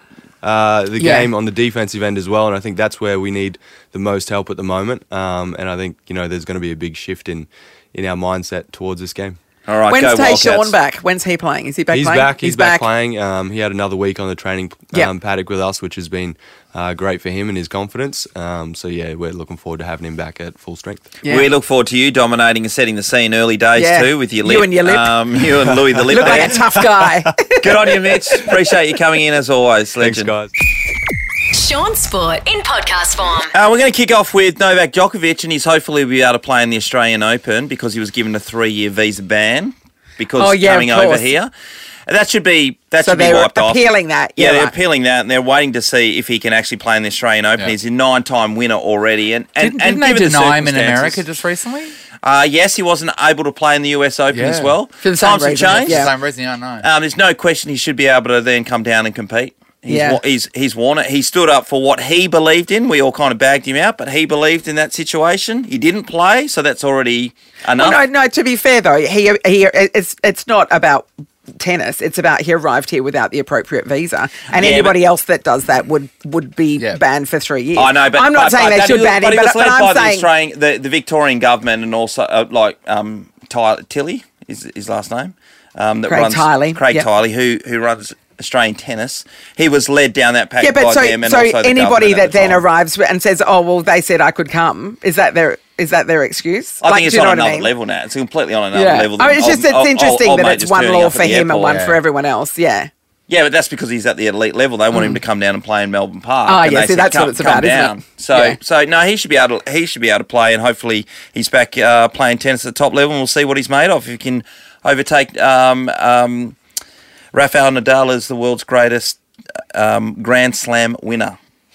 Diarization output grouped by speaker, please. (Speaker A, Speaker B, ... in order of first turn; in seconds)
Speaker A: 0.4-9.4, 11.9-21.1, 25.6-27.3, 30.0-30.5
Speaker B: 1.0-1.3, 9.9-12.9, 23.8-25.2, 26.1-27.7, 40.4-41.3, 43.0-44.8, 55.0-56.1, 59.9-60.2, 67.8-80.3, 86.1-87.1, 90.6-97.7, 98.7-102.9, 104.9-105.2, 106.5-108.6
Speaker C: 9.7-10.8, 21.3-26.6, 27.6-30.4, 33.5-41.5, 42.1-51.3, 52.2-56.1, 56.8-68.0, 74.5-75.0, 77.8-92.7, 96.8-101.8, 103.3-116.6, 117.3-119.2, 119.7-121.4
Speaker D: 31.5-33.5
Speaker E: 49.6-52.0, 54.3-54.8, 55.7-56.9, 101.7-102.0